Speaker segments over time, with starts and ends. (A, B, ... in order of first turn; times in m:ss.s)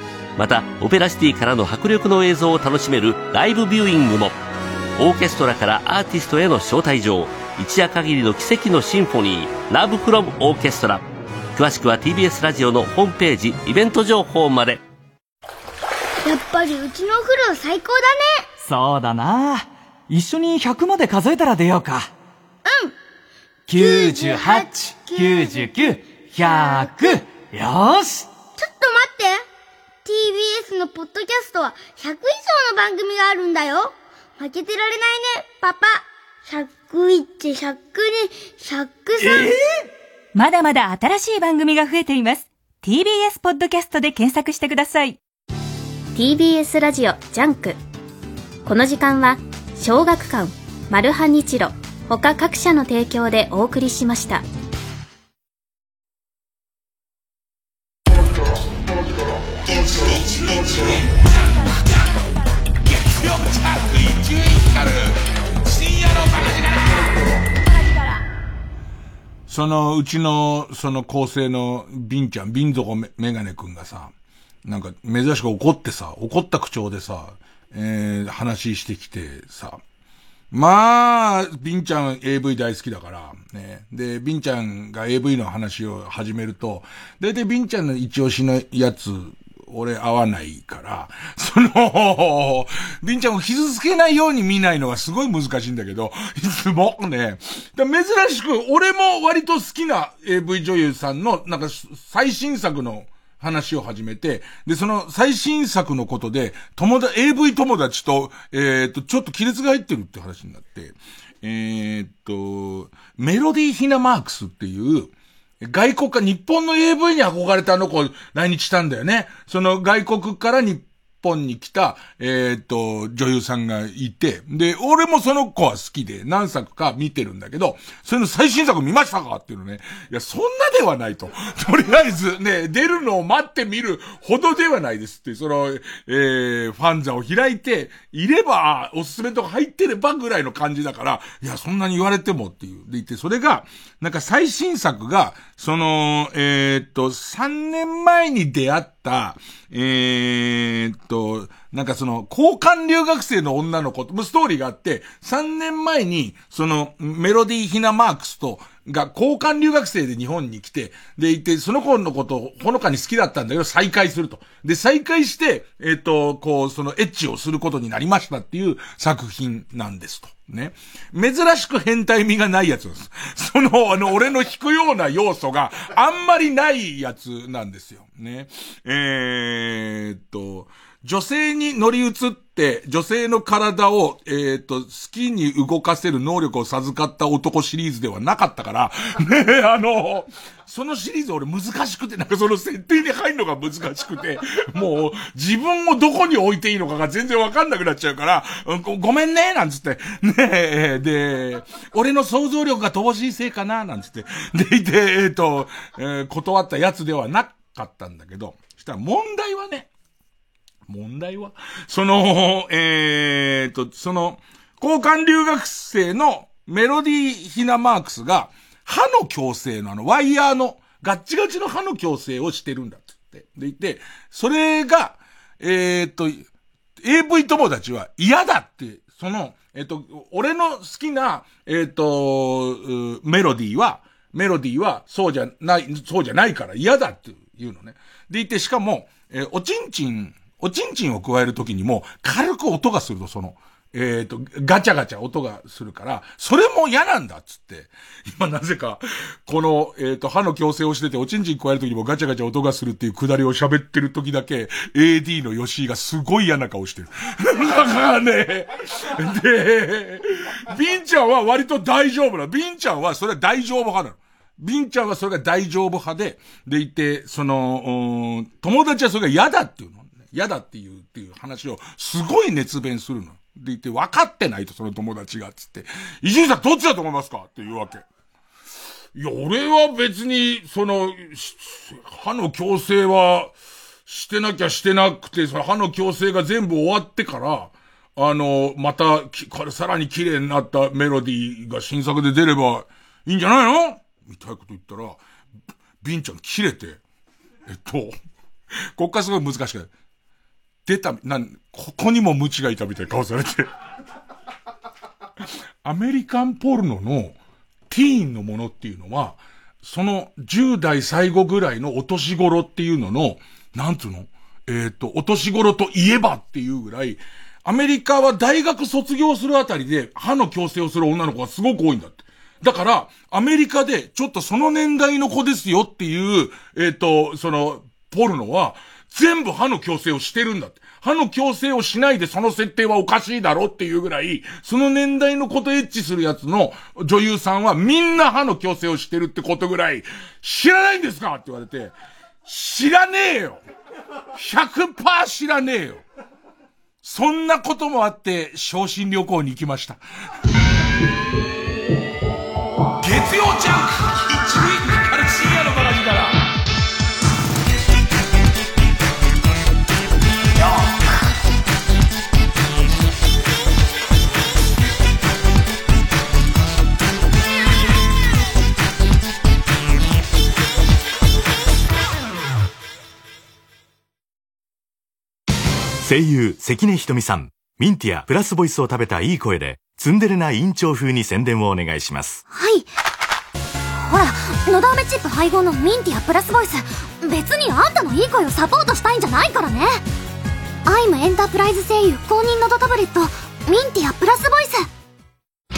0:00.4-0:04.4 A
0:05.0-0:11.0 A
0:11.6-0:14.8 A
0:16.2-0:18.5 B
0:20.3-0:21.9 C
0:22.6-0:22.9 B
0:23.7-0:24.6 C
0:23.8-0:25.7 B
0:25.3-0:26.0 C
0:26.4-0:27.2 B
0:26.5-0:27.2 C
0:28.6-0:29.4 B
0:30.0-0:39.5 B
0:40.8-0:45.2 D
0:46.2-0:47.8 E
0:48.6-0:54.4 E
1:00.4-1:00.7 F
1:03.1-1:05.1 F
1:05.7-1:06.6 F
1:09.5-1:14.1 F
1:14.6-1:19.8 F
1:20.5-1:55.1 F
1:55.6-3:29.9 F
3:30.9-3:46.5 F
3:47.0-4:38.0 F
4:39.2-4:43.5 F
4:44.1-4:55.2 F
4:56.0-4:57.0 F
4:57.7-4:58.2 F
4:59.0-4:59.9 F
5:00.9-5:03.7 F
5:05.8-5:07.4 F
5:07.9-5:43.6 F
5:44.3-5:46.0 F
5:47.0-5:50.0 F
5:53.0-5:56.4 F
6:16.0-6:22.4 G
6:22.5-6:22.9 H
6:23.9-6:30.0 H
6:30.8-6:34.9 H